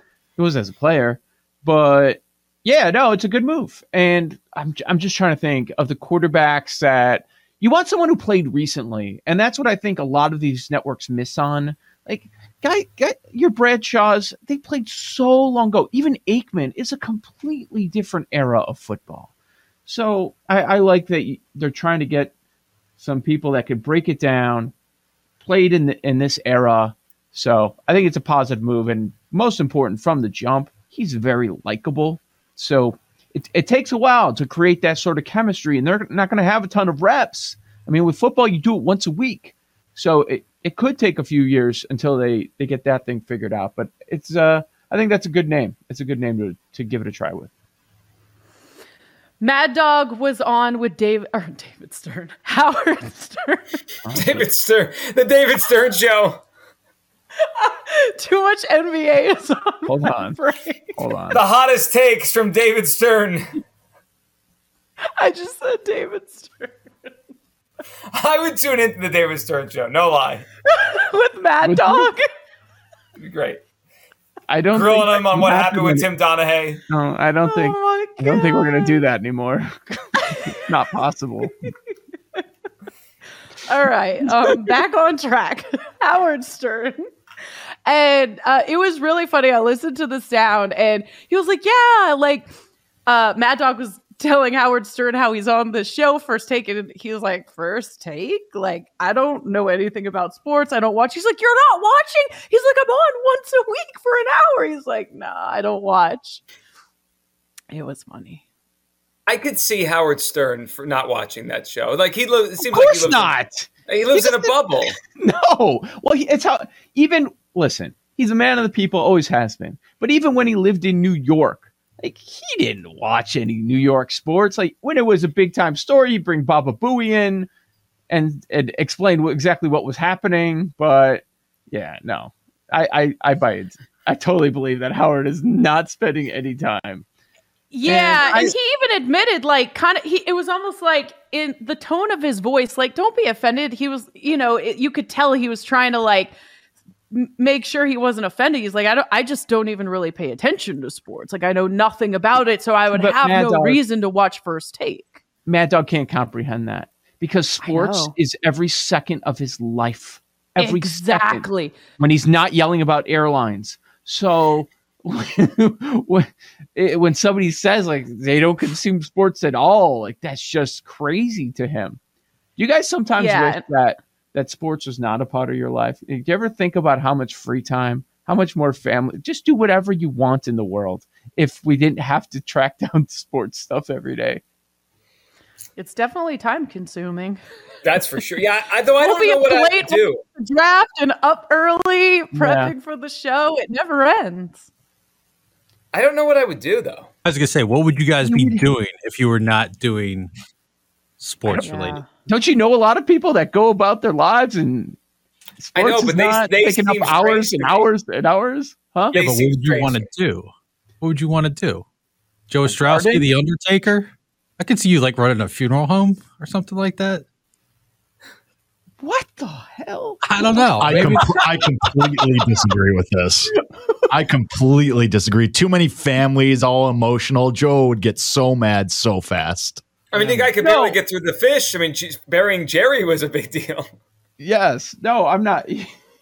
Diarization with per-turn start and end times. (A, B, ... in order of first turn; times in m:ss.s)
0:00.4-0:19.3 A
0:19.8-0:22.3 A
0:23.0-0:24.7 A
0:25.4-0:47.5 A
0:49.4-0:53.8 B
0:54.0-0:54.5 A
0:54.1-0:56.4 C
0:57.5-1:00.9 B
0:59.9-1:00.4 A
1:01.0-1:01.4 A
1:01.3-1:03.6 C
1:05.2-1:06.8 B
1:08.1-1:10.5 C
1:10.7-1:12.2 B
1:11.6-1:12.1 A
1:13.2-1:13.6 C
1:14.5-1:16.1 A
1:14.7-1:16.8 C
1:16.9-1:21.7 A
1:17.4-1:19.0 B
1:20.2-1:20.5 B
1:23.6-1:27.0 B
1:27.8-1:32.5 B
1:33.0-1:46.4 B
1:47.7-1:48.4 B
1:49.3-1:55.0 C
1:52.6-1:54.6 A
1:55.2-2:07.5 A
2:08.1-2:17.0 A
2:17.7-2:26.3 B
2:17.8-2:18.5 A
2:27.1-2:35.2 B
2:32.9-2:33.8 A
2:35.4-2:52.0 A
2:37.6-2:38.1 B
2:40.6-2:41.8 B
2:52.6-3:04.4 A
2:53.1-2:53.6 B
3:05.8-3:07.4 B
3:07.8-3:10.2 C
3:09.0-3:14.6 B
3:12.3-3:12.7 A
3:15.9-3:17.1 C
3:17.2-3:20.3 D
3:18.2-3:18.6 A
3:21.2-3:22.0 D
3:21.5-3:22.0 B
3:22.2-3:25.0 A
3:25.6-3:29.2 A
3:25.7-3:27.9 C
3:29.1-3:30.1 C
3:29.2-3:30.5 D
3:31.0-3:31.8 D
3:32.5-3:37.2 D
3:32.6-3:33.3 A
3:39.0-3:41.4 A
3:40.2-3:41.4 D
3:40.8-3:43.5 E
3:44.1-3:49.8 E
3:50.1-3:53.9 C
3:50.1-3:51.0 A
3:54.4-3:55.9 A